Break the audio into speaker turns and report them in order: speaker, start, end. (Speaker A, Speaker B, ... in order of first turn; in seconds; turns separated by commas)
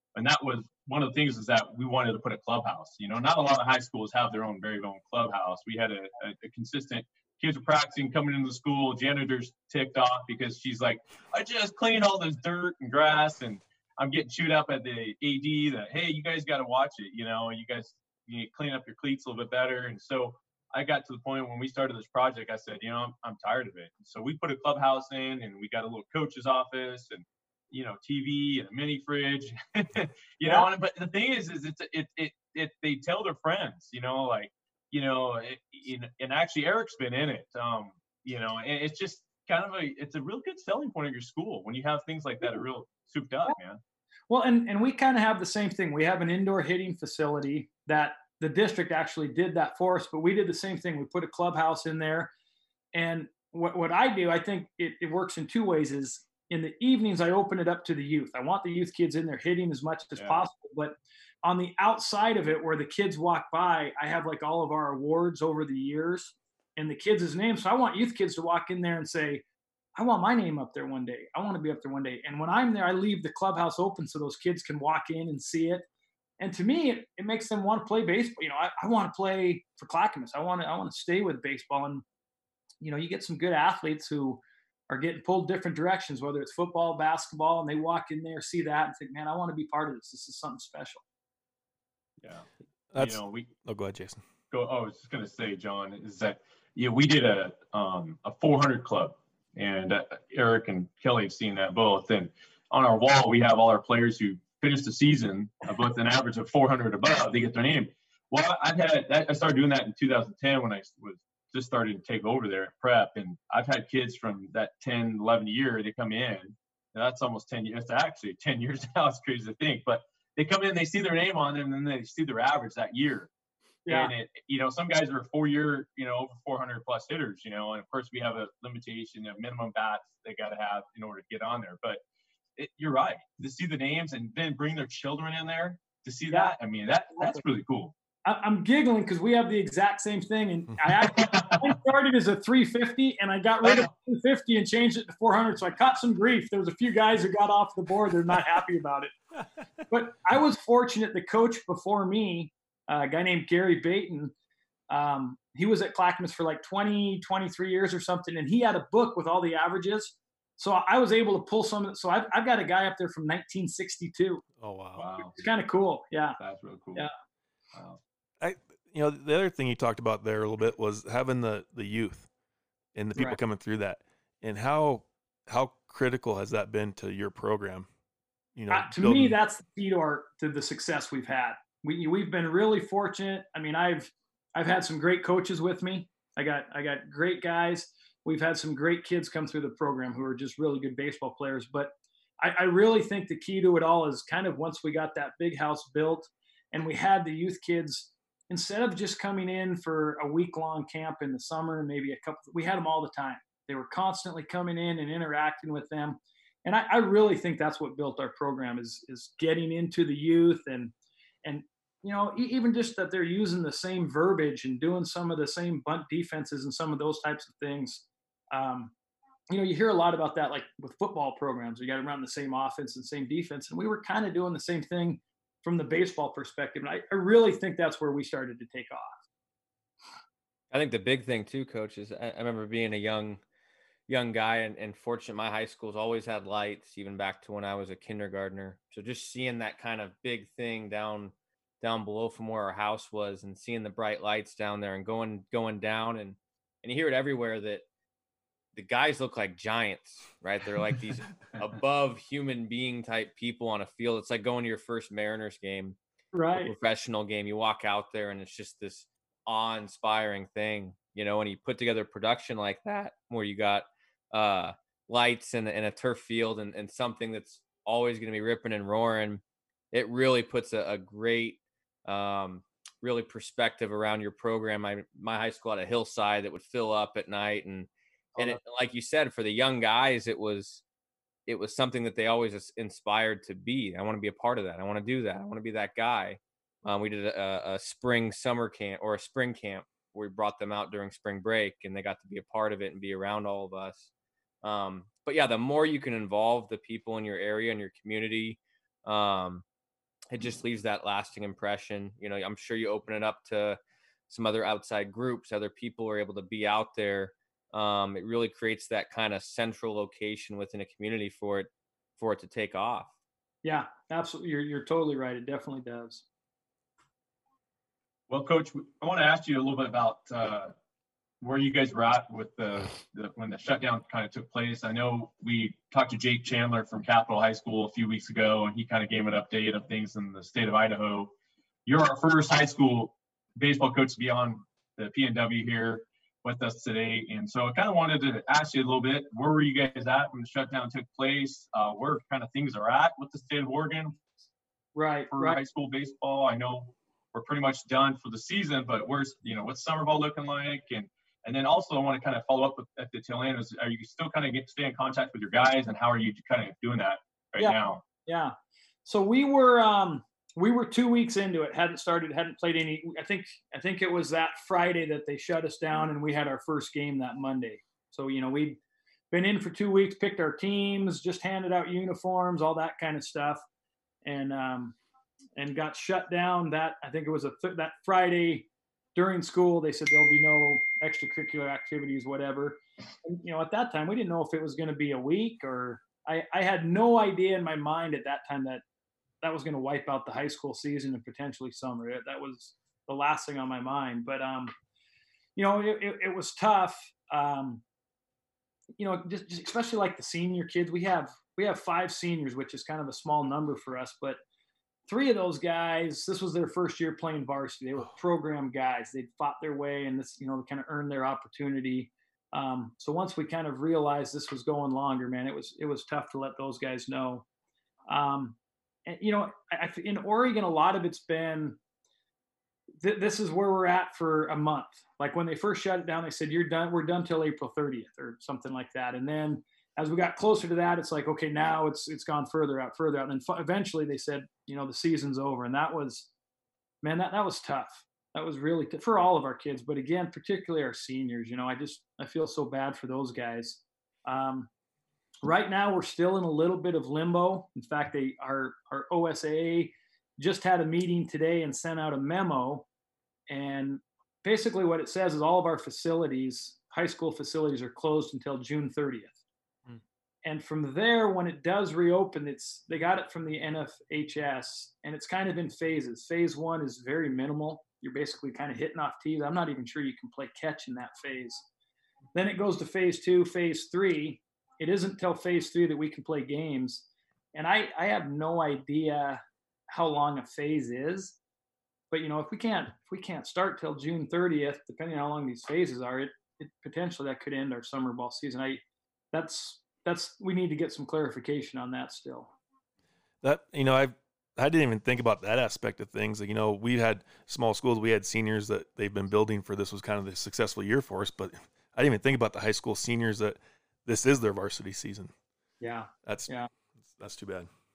Speaker A: 0.1-43.8, Speaker B: 30.4-30.7, Speaker B: 44.3-52.3, Speaker B: 52.9-69.4, Speaker B: 70.0-75.9, Speaker B: 76.4-82.0, Speaker B: 82.8-91.0, Speaker A: 92.2-93.5, Speaker C: 92.9-94.2, Speaker A: 94.5-123.3, Speaker B: 123.9-124.1, Speaker A: 123.9-132.0, Speaker A: 132.6-137.9, Speaker B: 138.2-149.1, Speaker A: 141.0-141.7, Speaker B: 149.9-154.3, Speaker B: 154.9-164.4, Speaker C: 164.6-165.1, Speaker A: 165.0-165.4, Speaker B: 165.2-166.4, Speaker A: 166.4-167.1, Speaker A: 167.7-168.0, Speaker C: 168.4-172.3, Speaker C: 172.9-177.9, Speaker C: 178.6-179.4, Speaker B: 178.7-210.9, Speaker B: 211.4-218.9, Speaker B: 219.5-229.2, Speaker D: 230.7-233.4, Speaker D: 234.1-247.8, Speaker D: 248.7-256.0, Speaker B: 256.3-256.7, Speaker D: 256.6-280.8, Speaker B: 278.4-278.6, Speaker D: 281.5-294.1, Speaker D: 294.6-299.6, Speaker D: 300.3-303.8, Speaker D: 304.3-313.1, Speaker B: 313.6-316.2, Speaker A: 318.3-320.7, Speaker A: 321.4-331.3, Speaker A: 331.9-344.2, Speaker B: 344.9-345.6, Speaker A: 345.3-358.0, Speaker B: 357.6-358.5, Speaker B: 359.1-368.8, Speaker B: 369.3-373.6, Speaker B: 374.2-375.0, Speaker B: 375.6-388.8, Speaker B: 389.4-394.7, Speaker B: 395.6-397.8, Speaker B: 399.0-404.4, Speaker B: 405.1-417.4, Speaker B: 418.1-421.8, Speaker B: 423.0-436.3, Speaker B: 437.0-444.7, Speaker B: 445.4-452.9, Speaker B: 453.5-459.4, Speaker B: 460.4-471.7, Speaker B: 472.4-481.4, Speaker B: 482.1-492.5, Speaker C: 493.4-505.3, Speaker B: 505.8-506.7, Speaker C: 507.2-507.7